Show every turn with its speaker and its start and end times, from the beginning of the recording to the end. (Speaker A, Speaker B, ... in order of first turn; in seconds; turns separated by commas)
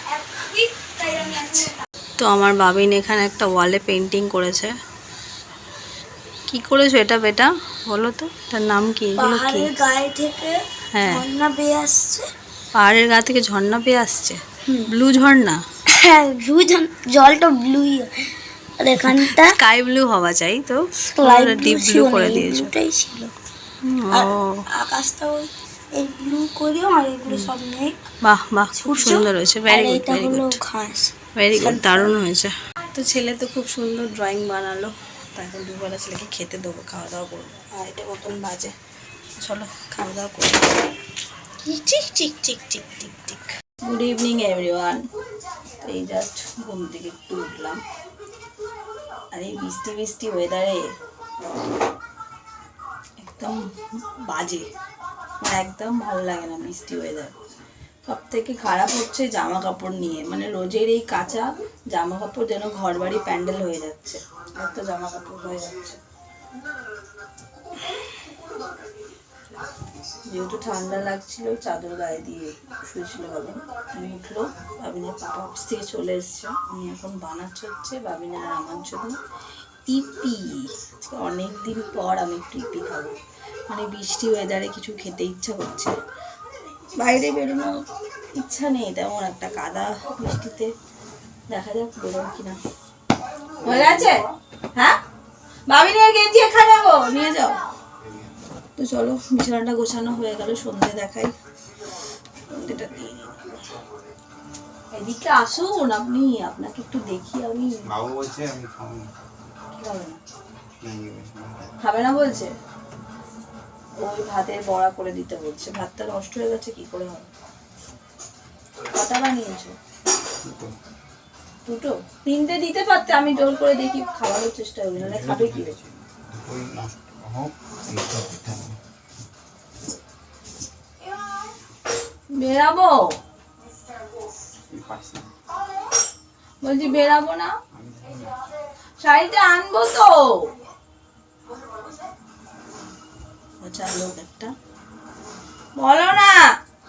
Speaker A: 0.1-1.7, Speaker B: 2.2-4.7, Speaker B: 6.5-9.7, Speaker A: 9.2-12.3, Speaker B: 10.9-11.2, Speaker B: 12.7-15.6, Speaker A: 15.9-18.1, Speaker A: 18.8-19.5, Speaker B: 19.1-22.7, Speaker A: 21.1-23.3, Speaker B: 23.8-24.6, Speaker A: 24.1-28.0, Speaker B: 28.2-30.6, Speaker A: 28.7-32.1, Speaker B: 31.3-38.7, Speaker B: 39.4-40.8, Speaker B: 41.6-45.0, Speaker B: 45.8-47.8, Speaker B: 49.3-50.8, Speaker B: 53.2-54.7, Speaker B: 55.4-57.3, Speaker B: 58.1-66.0, Speaker B: 70.3-79.2, Speaker B: 79.8-83.1, Speaker B: 83.7-85.9, Speaker B: 87.0-87.8, Speaker B: 88.3-90.7, Speaker B: 91.5-92.6, Speaker B: 93.6-95.0, Speaker B: 95.7-97.6, Speaker C: 98.0-98.3, Speaker B: 98.8-101.3, Speaker B: 102.5-103.5, Speaker B: 104.9-107.8, Speaker C: 107.9-109.1, Speaker B: 109.7-110.2, Speaker C: 110.8-111.7, Speaker B: 111.8-112.5, Speaker B: 114.0-117.3, Speaker B: 118.9-119.7, Speaker C: 120.4-120.7, Speaker B: 121.6-125.8, Speaker C: 125.0-128.8, Speaker B: 132.4-133.0, Speaker C: 134.7-135.3, Speaker B: 136.6-137.5, Speaker C: 137.7-138.3, Speaker B: 139.0-140.5, Speaker B: 143.6-144.5, Speaker B: 145.8-146.4